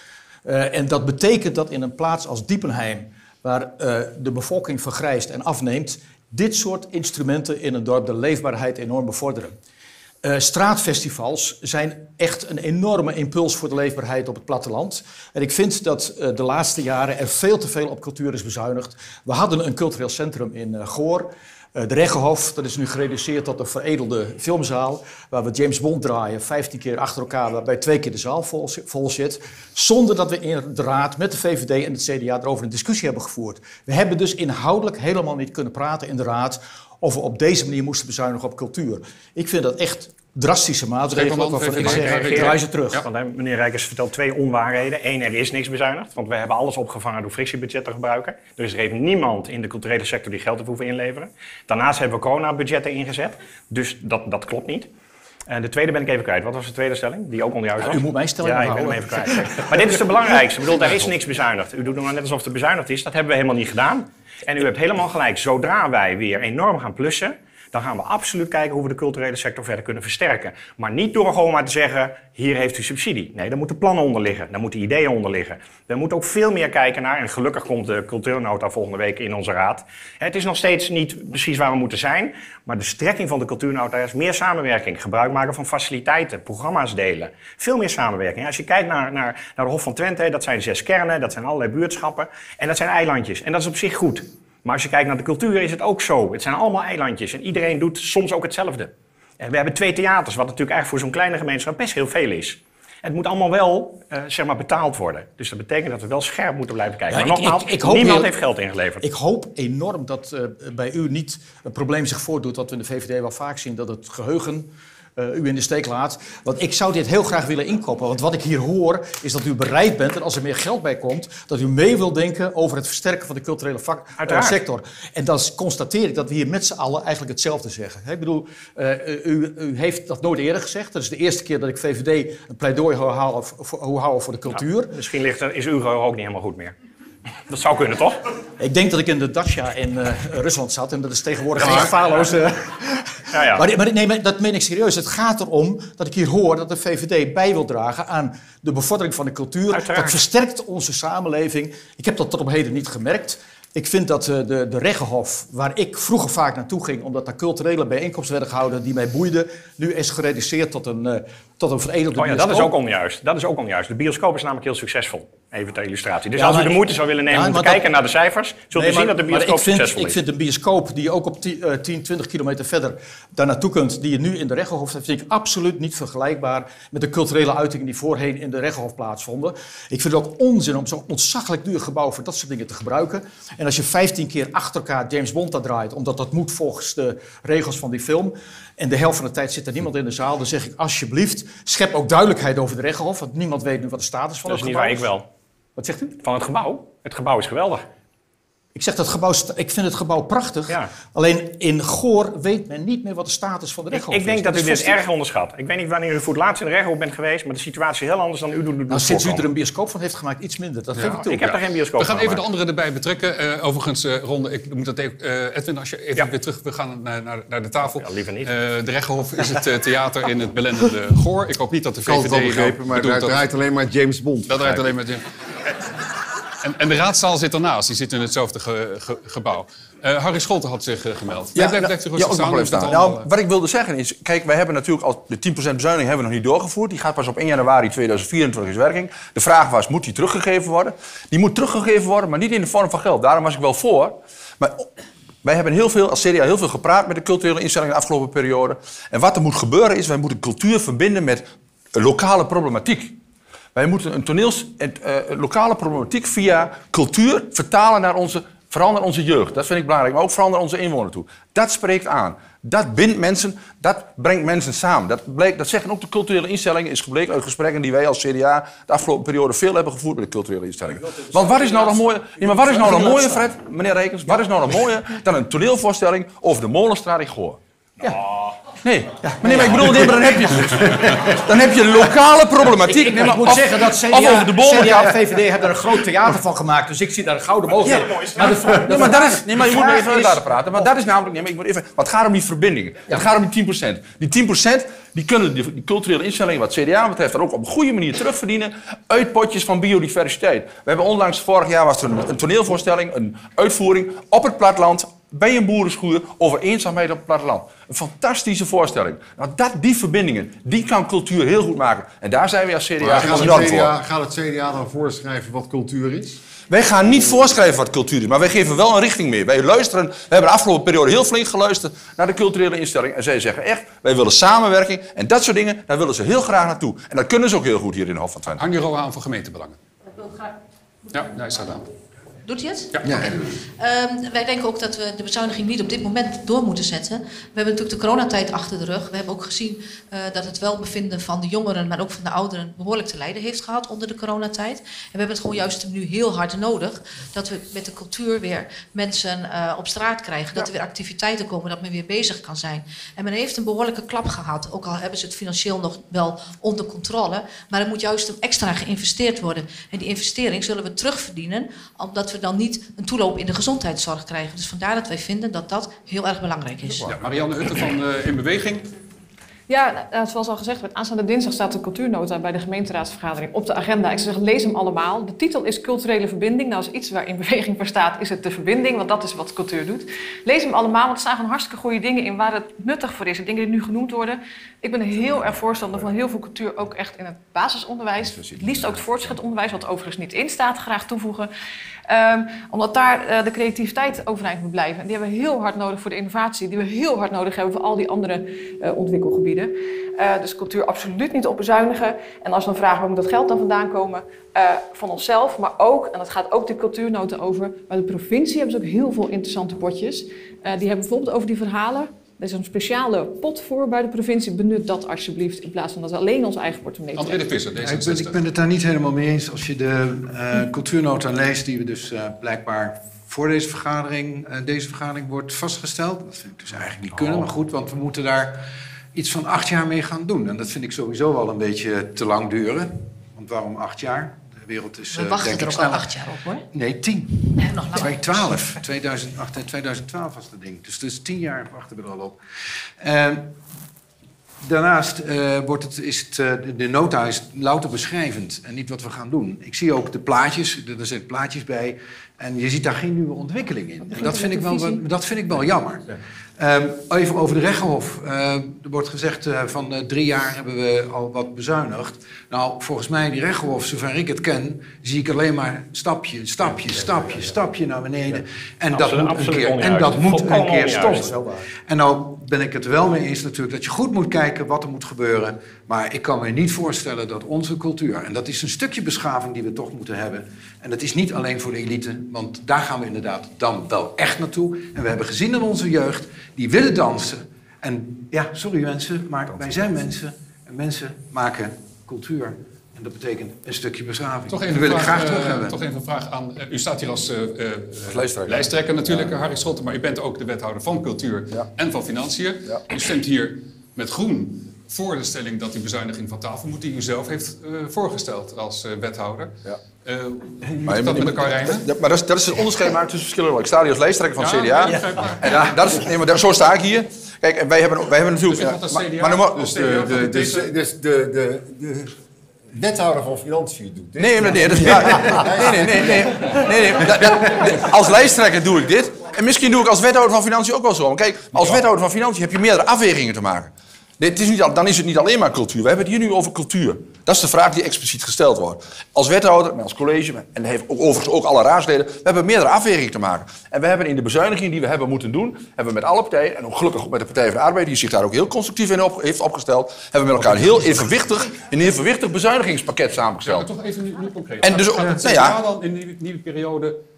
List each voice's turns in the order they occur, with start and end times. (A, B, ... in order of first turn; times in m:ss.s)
0:00.4-0:09.6 A
0:10.2-0:43.0 A
0:41.1-0:43.0 B
0:41.7-0:54.9 C
0:55.5-1:49.0 C
0:57.8-1:00.0 A
1:00.8-1:01.0 A
1:47.1-1:48.3 A
1:49.0-2:15.0 A
2:04.2-2:04.6 C
2:14.5-2:16.7 C
2:17.5-2:18.2 C
2:18.6-2:42.7 A
2:21.6-2:22.3 C
2:23.3-2:23.7 C
2:29.7-2:30.2 C
2:42.1-2:50.2 C
2:46.3-2:47.9 A
2:48.7-3:15.1 A
3:14.4-3:15.3 C
3:15.8-3:16.1 A
3:16.2-3:17.8 C
3:18.7-3:25.0 A
3:20.7-3:20.9 C
3:23.9-3:29.5 C
3:28.9-3:31.6 A
3:30.9-3:43.4 B
3:31.0-3:32.4 C
3:37.9-3:38.5 C
3:42.0-3:45.0 D
3:44.5-3:45.2 B
3:46.6-3:53.3 B
3:51.5-4:04.9 E
4:05.4-4:13.2 E
4:13.7-4:37.6 E
4:31.3-4:32.0 A
4:32.6-4:33.4 A
4:38.0-4:38.5 C
4:38.8-4:45.4 E
4:39.2-4:40.5 A
4:42.8-4:50.9 A
4:47.7-4:49.0 C
4:48.8-5:13.9 E
5:13.0-5:16.4 D
5:16.7-5:28.6 E
5:17.0-5:17.5 D
5:28.6-5:29.8 B
5:30.2-5:30.5 F
5:31.1-5:31.9 B
5:32.4-6:07.2 F
5:32.9-5:33.3 B
6:07.0-6:08.9 B
6:09.7-6:31.5 G
6:28.2-6:29.4 E
6:32.1-6:57.5 G
6:57.2-6:58.4 B
6:57.7-7:16.1 H
7:15.1-7:16.6 F
7:16.7-7:22.4 H
7:17.6-7:18.7 F
7:23.0-7:23.6 H
7:24.6-8:15.8 H
7:34.1-7:35.0 G
7:48.9-7:51.3 C
7:50.4-7:51.6 A
8:14.5-8:31.8 B
8:18.1-8:19.3 E
8:30.8-8:39.7 E
8:34.4-8:35.7 B
8:38.5-8:40.7 B
8:39.5-8:42.2 D
8:42.7-8:47.4 D
8:44.2-9:13.7 E
9:13.4-9:17.0 B
9:14.6-9:15.6 E